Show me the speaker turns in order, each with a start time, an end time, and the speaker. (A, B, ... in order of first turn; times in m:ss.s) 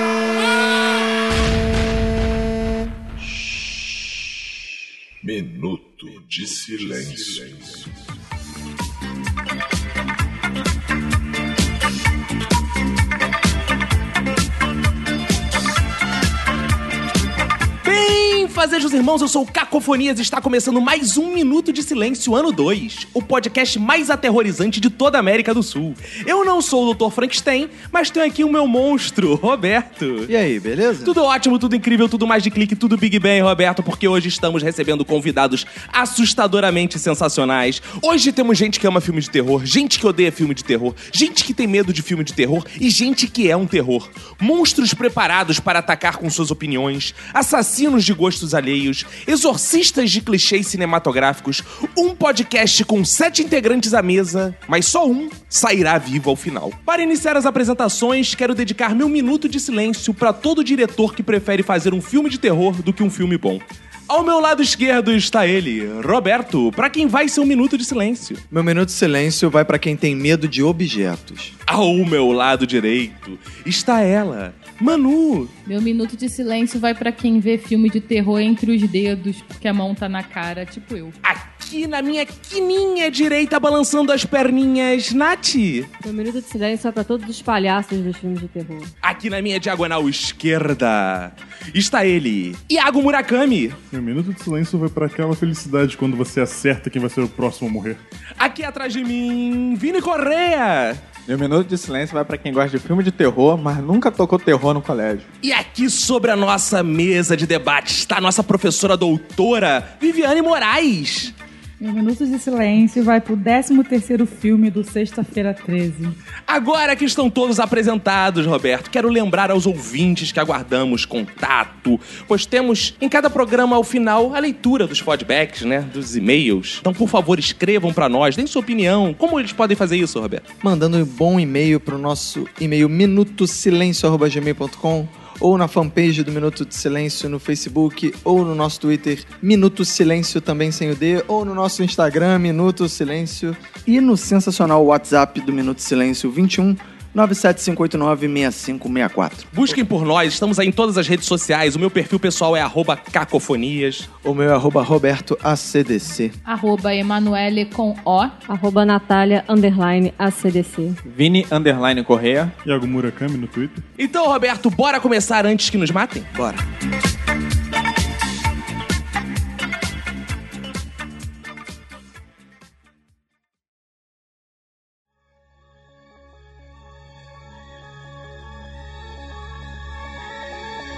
0:05.2-0:08.0 A
0:17.8-0:30.3 B
0:30.3-0:31.2 C
0:31.0-1:08.4 B
1:08.5-1:11.5 C
1:11.7-1:15.5 B
1:15.6-1:21.2 D
1:21.2-1:25.9 B
1:26.0-1:28.9 E
1:29.0-1:33.8 B
1:33.9-1:38.0 F
1:38.4-1:41.0 B
1:41.3-1:45.3 G
1:45.4-1:51.3 B
1:51.8-1:56.1 H
1:56.5-2:10.4 B
2:10.6-2:29.5 C
2:29.5-2:34.0 B
2:34.2-2:36.3 C
2:36.4-2:38.3 D
2:38.5-2:41.0 E
2:41.0-2:42.5 G
2:42.6-2:43.8 F
2:44.0-2:46.3 B
2:46.3-2:46.6 C